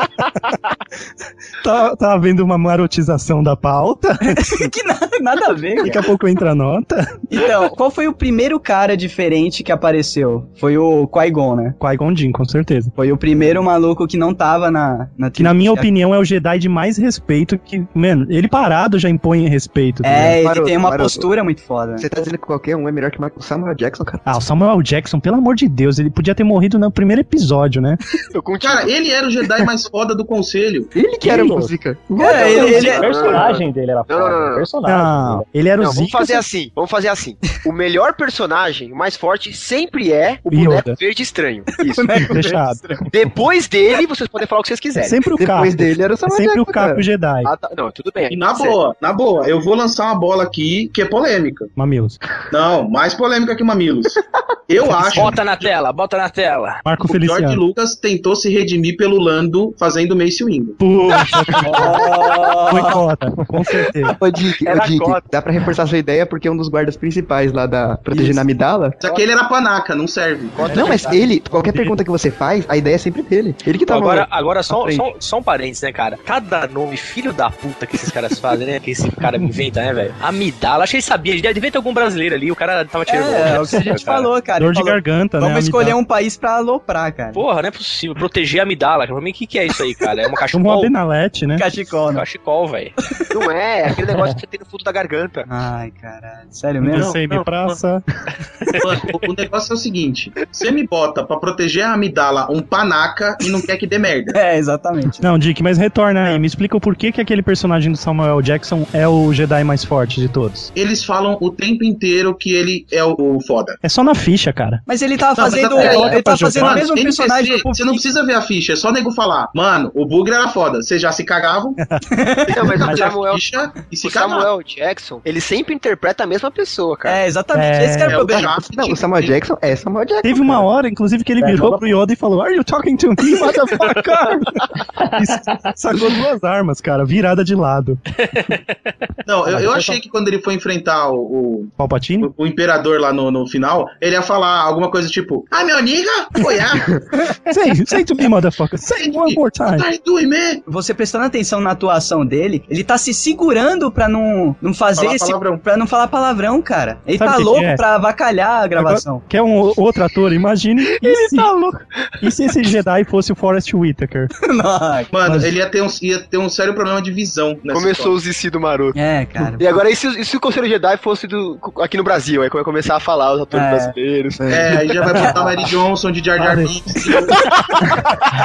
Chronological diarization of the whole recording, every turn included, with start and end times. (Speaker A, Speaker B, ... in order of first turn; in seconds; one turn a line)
Speaker A: 1.6-4.7
Speaker B: 4.3-6.0
Speaker A: 5.8-7.2
Speaker B: 7.3-11.8
Speaker A: 11.8-12.9
Speaker B: 13.0-15.9
Speaker A: 15.4-20.4
Speaker B: 20.0-22.1
Speaker C: 20.4-21.3
Speaker C: 22.0-24.3
Speaker A: 24.2-28.0
Speaker D: 28.3-28.9
Speaker E: 28.6-30.9
Speaker C: 30.9-32.5
Speaker F: 31.2-35.4
Speaker B: 32.2-33.1
Speaker D: 32.2-34.7
Speaker A: 34.9-36.4
Speaker D: 35.8-42.2
Speaker A: 40.5-41.0
Speaker B: 41.9-43.1
Speaker A: 42.3-42.8
Speaker D: 43.1-45.2
Speaker A: 45.0-47.5
Speaker C: 45.4-47.0
Speaker D: 47.4-48.8
Speaker E: 48.3-51.7
Speaker A: 51.8-52.2
Speaker E: 52.5-55.7
Speaker A: 54.9-55.4
Speaker G: 55.0-56.8
Speaker A: 56.9-57.6
Speaker E: 57.1-60.8
Speaker A: 60.8-62.1
Speaker B: 61.7-63.0
Speaker A: 62.7-64.1
Speaker D: 64.2-65.3
Speaker C: 64.5-69.0
Speaker D: 68.1-68.4
Speaker E: 69.0-70.7
Speaker D: 70.5-71.3
Speaker C: 70.7-74.3
Speaker A: 70.7-71.9
Speaker G: 73.9-84.3
Speaker B: 83.1-87.4
Speaker A: 84.6-86.0
Speaker G: 87.3-90.9
Speaker A: 90.5-91.7
Speaker B: 91.6-92.2
Speaker G: 92.1-92.9
Speaker D: 93.3-95.5
Speaker B: 95.5-97.2
Speaker A: 96.8-98.0
Speaker E: 98.8-104.4
Speaker B: 104.3-105.2
Speaker A: 105.2-110.7
Speaker E: 110.8-113.8
Speaker A: 113.8-114.8
Speaker B: 114.9-118.0
Speaker E: 115.4-121.8
Speaker A: 115.8-116.8
Speaker B: 122.1-122.5
Speaker D: 122.5-123.5
Speaker E: 122.5-124.5
Speaker D: 124.0-127.2
Speaker B: 127.0-128.6
Speaker A: 127.5-128.3
Speaker E: 128.1-129.4
Speaker C: 128.7-130.7
Speaker A: 130.2-138.0
Speaker F: 131.4-131.8
Speaker G: 138.2-138.7
Speaker E: 139.2-147.0
Speaker A: 141.8-142.3
Speaker A: 147.5-149.9
Speaker E: 148.9-150.6
Speaker B: 150.7-159.2
Speaker E: 155.0-155.6
Speaker A: 157.2-157.8
Speaker A: 158.8-164.3
Speaker B: 164.5-165.1
Speaker E: 165.1-168.2
Speaker A: 165.2-165.5
Speaker D: 167.7-168.9
Speaker B: 168.9-169.6
Speaker D: 169.6-174.6
Speaker B: 173.5-173.9
Speaker C: 174.4-174.7
Speaker E: 174.5-177.4
Speaker A: 176.4-176.8